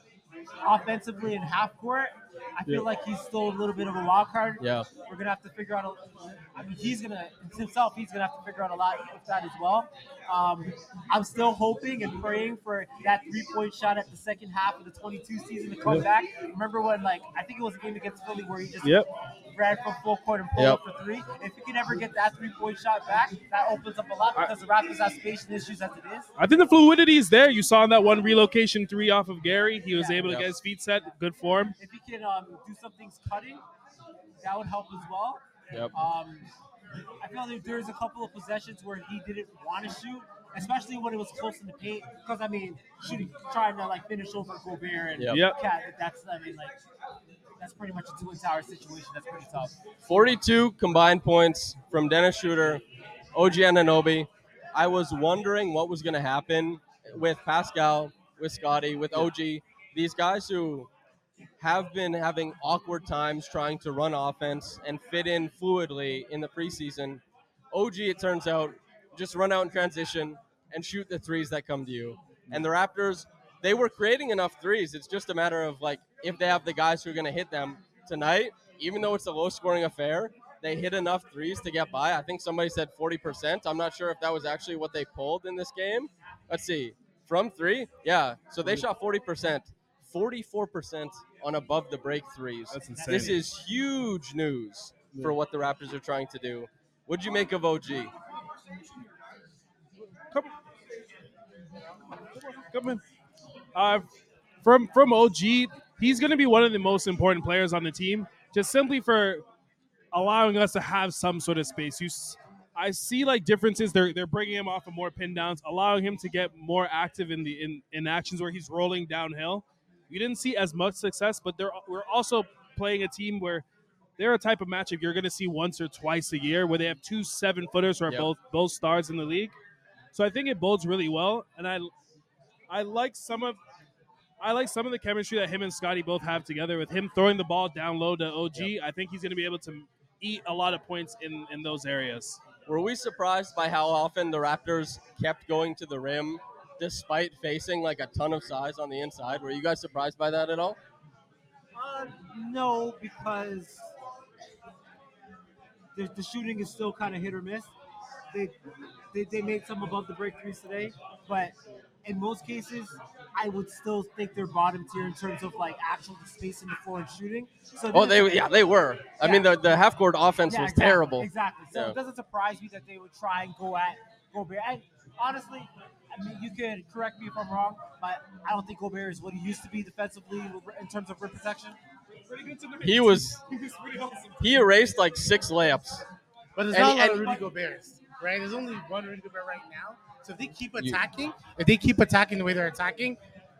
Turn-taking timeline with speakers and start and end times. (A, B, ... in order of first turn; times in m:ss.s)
0:00.6-0:26.3 A
0:04.6-0:04.9 B
0:18.8-0:19.1 C
0:26.4-0:31.7 C
0:29.9-0:30.3 A
0:30.2-0:30.5 B
0:31.8-0:33.6 A
0:34.4-0:36.5 A
0:37.2-0:46.7 A
0:45.3-0:45.6 C
0:47.6-0:49.8 A
0:50.1-0:52.8 B
0:53.3-1:00.9 B
1:01.6-1:07.2 B
1:07.7-1:38.1 B
1:32.7-1:33.4 C
1:33.0-1:33.4 A
1:42.5-1:43.0 C
1:43.7-1:44.1 C
1:44.6-1:49.4 C
1:50.1-2:03.6 C
2:04.2-2:09.5 C
2:10.1-2:11.9 C
2:12.7-2:13.6 C
2:14.4-2:22.4 C
2:22.7-2:30.8 B
2:31.7-2:33.8 A
2:35.9-2:37.7 A
2:39.1-2:48.5 A
2:47.9-2:52.0 B
2:49.2-2:49.5 A
2:50.5-3:01.8 A
3:02.3-3:04.4 C
3:02.8-3:03.4 B
3:04.4-3:06.0 B
3:06.6-3:13.2 D
3:06.7-3:07.4 B